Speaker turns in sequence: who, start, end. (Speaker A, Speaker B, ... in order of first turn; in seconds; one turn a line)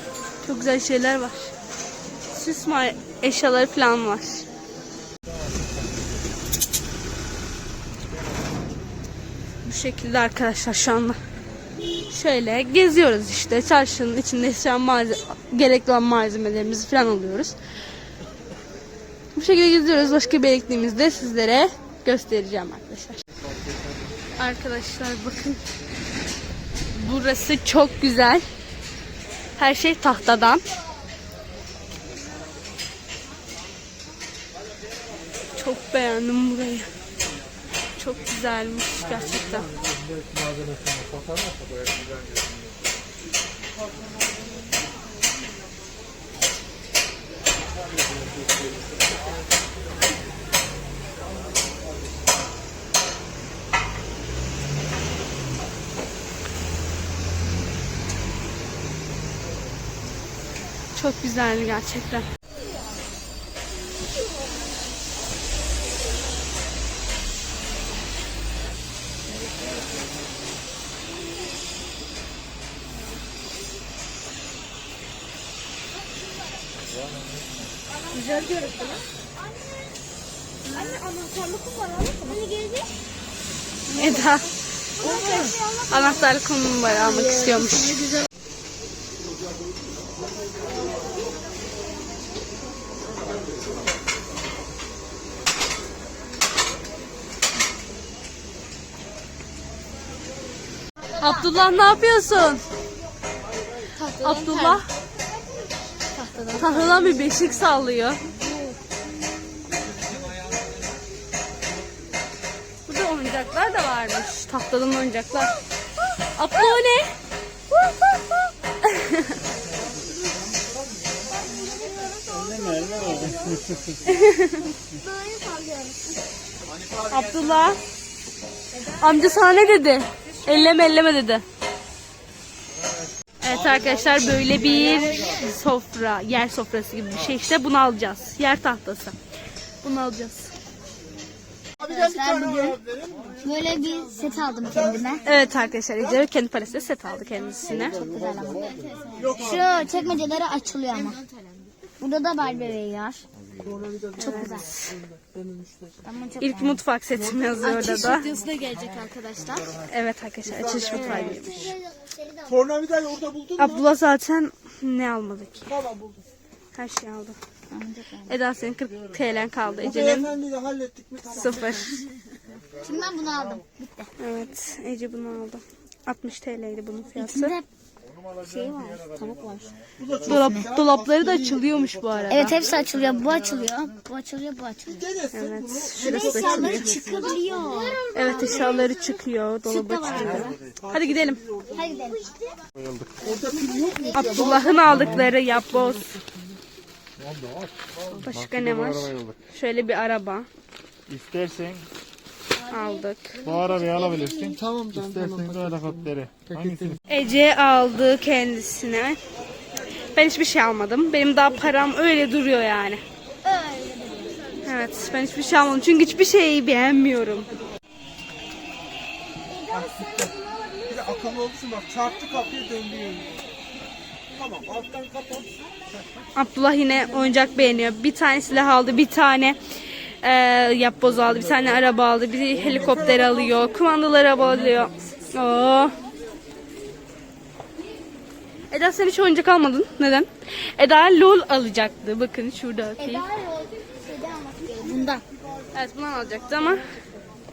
Speaker A: 0.4-1.5
Speaker A: 2.3-4.4
Speaker A: 9.6-11.2
Speaker A: 12.1-17.6
Speaker A: 19.4-23.2
Speaker A: 24.4-25.6
Speaker A: 26.9-28.4
Speaker A: 29.6-30.6
Speaker A: 35.6-36.9
Speaker A: 38.0-39.7
Speaker A: 61.0-62.3
Speaker B: 78.1-79.0
Speaker B: 80.7-82.5
Speaker C: 82.3-82.8
Speaker A: 84.0-84.5
Speaker B: 85.0-86.3
Speaker A: 85.9-88.0
Speaker C: 87.1-88.0
Speaker A: 101.2-102.6
Speaker C: 104.0-104.8
Speaker A: 104.2-104.9
Speaker C: 106.1-107.4
Speaker A: 106.6-108.2
Speaker A: 112.9-115.5
Speaker A: 116.4-117.1
Speaker A: 118.8-119.3
Speaker B: 121.4-123.6
Speaker C: 121.5-123.1
Speaker A: 124.1-124.6
Speaker C: 124.9-126.0
Speaker A: 127.1-127.8
Speaker A: 128.9-131.4
Speaker A: 133.4-139.2
Speaker A: 139.8-140.5
Speaker C: 141.8-142.8
Speaker C: 143.4-145.2
Speaker A: 145.2-148.0
Speaker C: 147.7-151.2
Speaker B: 148.7-149.3
Speaker D: 149.2-149.7
Speaker B: 151.2-151.6
Speaker C: 152.0-153.2
Speaker D: 153.7-154.5
Speaker C: 154.2-154.7
Speaker A: 154.2-155.0
Speaker C: 156.0-156.8
Speaker A: 156.4-158.3
Speaker B: 157.6-159.8
Speaker A: 159.9-161.7
Speaker C: 160.9-162.7
Speaker D: 161.0-161.5
Speaker D: 162.6-163.6
Speaker A: 163.6-165.8
Speaker A: 166.8-167.4
Speaker C: 167.7-168.4
Speaker A: 168.3-170.3
Speaker D: 169.9-171.4
Speaker A: 171.2-172.0
Speaker C: 172.8-174.1
Speaker A: 174.2-177.6
Speaker C: 177.2-177.7
Speaker E: 178.2-180.1
Speaker C: 178.4-179.7
Speaker D: 180.0-181.6
Speaker A: 180.2-182.6
Speaker C: 180.3-180.7
Speaker C: 182.3-185.1
Speaker D: 185.2-187.3
Speaker A: 185.3-187.0
Speaker C: 186.0-189.1
Speaker B: 187.3-188.8
Speaker A: 188.1-191.4
Speaker C: 189.7-190.6
Speaker C: 191.7-192.4
Speaker E: 192.8-193.2
Speaker D: 193.2-195.3
Speaker C: 193.3-194.9
Speaker A: 194.1-196.1
Speaker E: 198.2-199.4
Speaker A: 198.2-200.5
Speaker E: 201.1-201.9
Speaker A: 202.7-203.3
Speaker C: 202.7-204.6
Speaker E: 203.4-206.9
Speaker A: 207.1-209.2
Speaker A: 210.1-213.0
Speaker C: 213.4-214.6
Speaker A: 214.6-217.5
Speaker C: 219.4-221.5
Speaker D: 220.9-223.2
Speaker C: 222.1-222.7
Speaker D: 224.4-225.4
Speaker A: 226.4-229.6
Speaker A: 230.2-235.9
Speaker A: 238.7-243.2
Speaker C: 243.0-245.2
Speaker A: 245.7-246.8